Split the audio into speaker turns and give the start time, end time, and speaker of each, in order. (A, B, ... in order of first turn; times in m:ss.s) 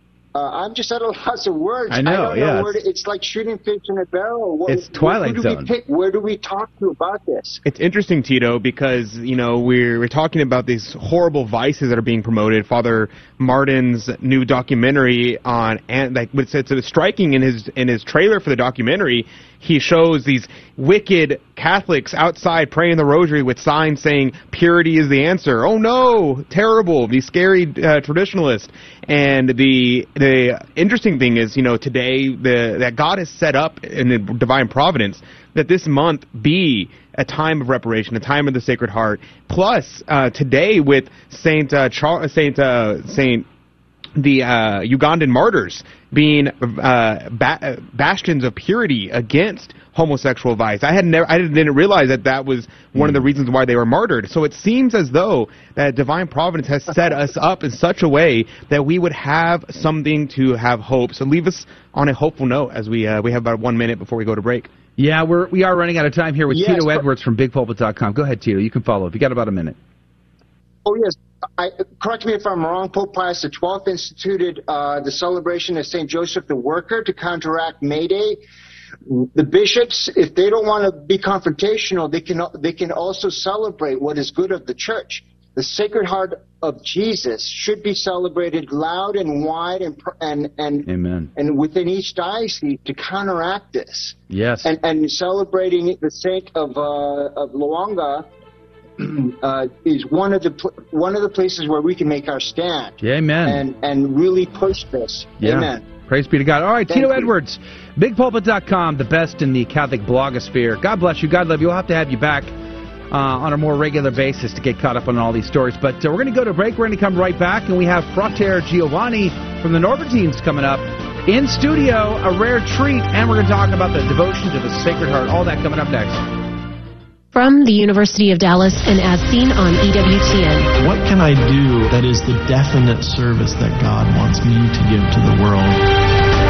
0:00.4-0:07.6 A
0:01.9-0:02.8 B
0:04.7-0:05.7 B
0:07.6-0:43.4 C
0:44.2-1:04.7 C
1:05.0-1:09.8 B
1:06.5-1:07.0 A
1:10.9-1:18.4 A
1:19.1-1:38.3 A
1:30.9-1:31.3 B
1:34.3-1:34.7 B
1:39.0-1:45.8 A
1:43.0-1:43.6 B
1:45.4-1:52.5 B
1:46.9-1:47.3 A
1:53.1-2:06.2 B
2:07.3-2:10.7 D
2:10.8-2:15.9 E